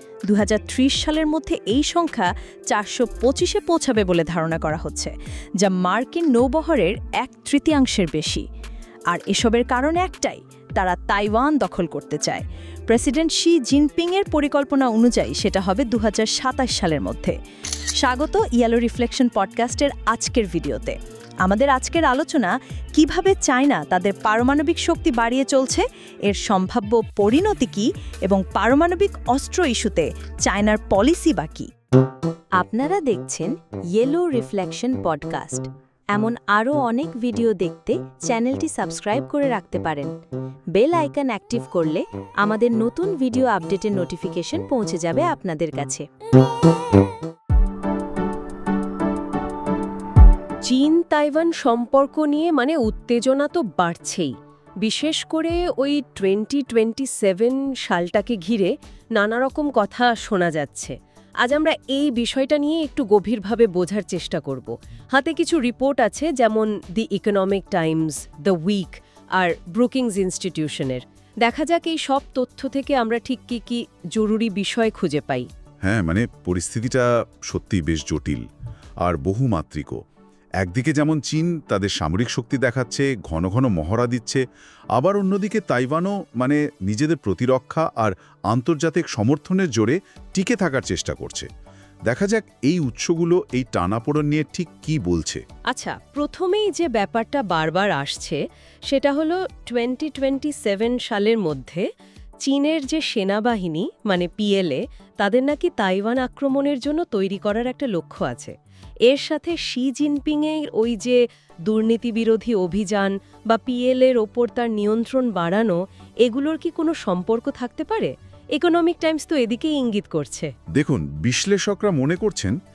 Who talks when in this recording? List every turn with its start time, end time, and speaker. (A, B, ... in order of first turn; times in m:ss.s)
0:00.3-0:08.4 A
0:09.1-0:17.4 A
0:18.0-0:31.7 A
0:32.6-0:40.1 B
0:40.8-0:46.0 B
0:50.7-1:15.5 C
1:15.8-1:18.4 D
1:19.0-1:20.0 D
1:20.6-1:24.4 D
1:24.9-1:31.5 D
1:32.1-1:35.4 D
1:35.7-1:41.9 C
1:42.4-1:48.5 C
1:49.1-2:00.5 C
2:00.7-2:02.6 D